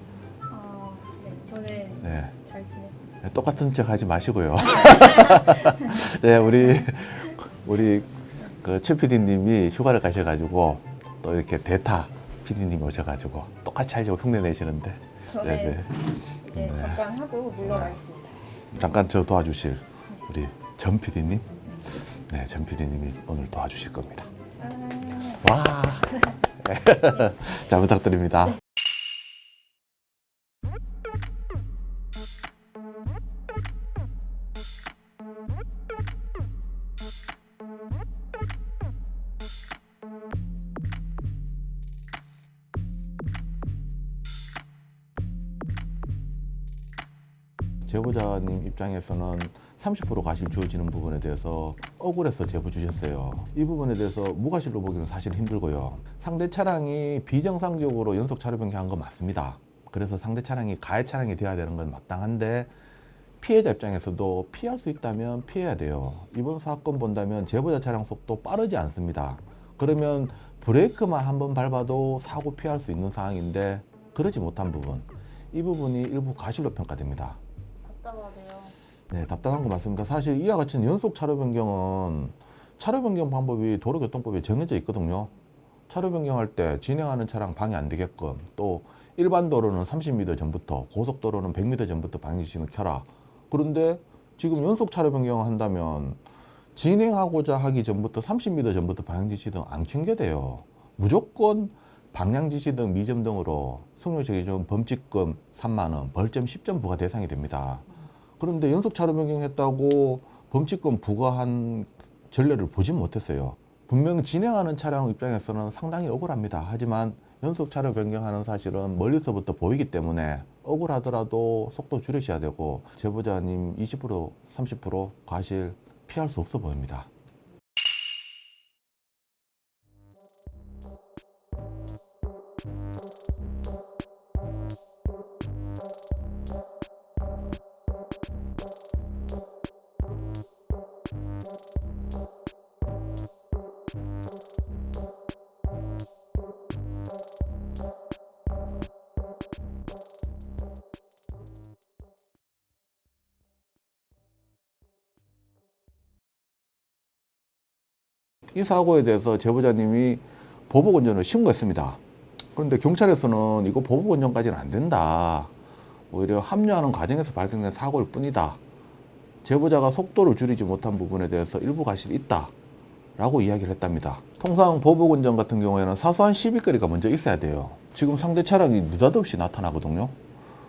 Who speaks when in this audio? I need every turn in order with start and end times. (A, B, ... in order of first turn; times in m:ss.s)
0:00.5-0:03.1 A
0:02.0-0:02.3 B
0:03.2-0:15.9 B
0:04.8-0:06.0 A
0:15.3-0:18.4 A
0:16.5-0:17.0 B
0:17.6-0:18.0 B
0:18.7-0:24.3 B
0:24.6-0:25.4 A
0:25.3-0:28.6 B
0:47.8-1:02.7 B
1:03.4-1:17.4 B
1:17.8-1:18.8 A
1:19.1-1:25.3 B
1:25.9-1:36.2 B
1:36.7-1:47.8 B
1:48.4-2:07.1 B
2:38.5-2:42.0 B
2:42.5-2:45.5 B
2:46.1-2:48.6 B
2:49.4-2:52.5 B
2:53.2-3:00.2 B